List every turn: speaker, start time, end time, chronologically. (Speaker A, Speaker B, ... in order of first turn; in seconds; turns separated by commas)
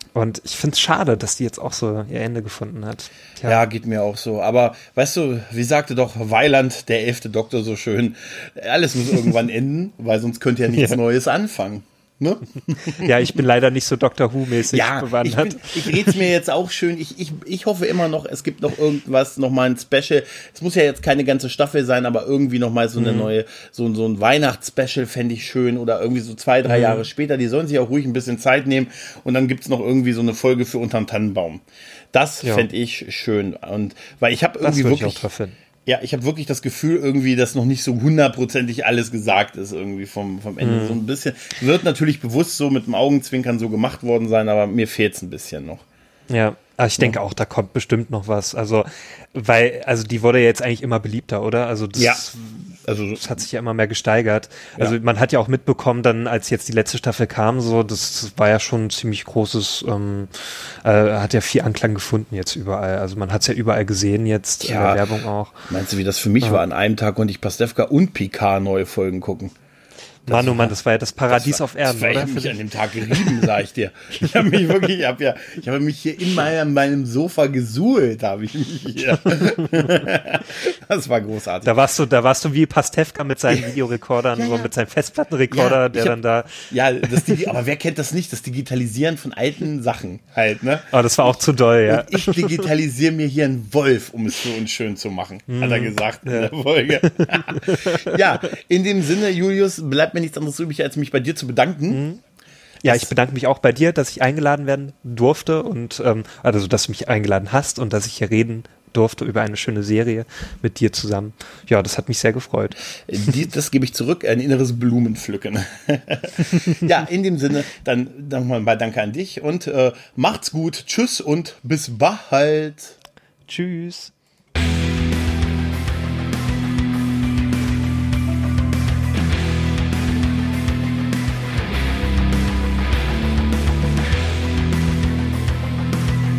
Speaker A: 0.1-3.6, Speaker B: 3.5-13.3, Speaker A: 10.7-11.0, Speaker A: 12.9-16.2, Speaker B: 14.7-35.2, Speaker A: 22.9-23.3, Speaker A: 26.6-27.1, Speaker A: 32.4-32.7, Speaker A: 34.6-35.5, Speaker B: 35.9-45.8, Speaker A: 40.6-41.0, Speaker A: 46.3-65.7, Speaker B: 52.0-52.2, Speaker B: 52.8-53.4, Speaker B: 64.6-65.1, Speaker B: 65.7-69.5, Speaker A: 70.3-72.6, Speaker B: 70.3-70.8, Speaker B: 71.3-81.7, Speaker A: 73.1-73.4, Speaker A: 81.6-87.5, Speaker B: 83.5-83.7, Speaker B: 84.4-84.7, Speaker B: 85.5-86.2, Speaker B: 86.7-90.9, Speaker A: 90.9-92.7, Speaker B: 91.9-102.0, Speaker A: 95.5-96.5, Speaker A: 97.0-98.2, Speaker A: 101.9-102.2, Speaker B: 102.8-103.1, Speaker A: 102.8-113.4, Speaker B: 113.1-123.0, Speaker A: 123.5-124.1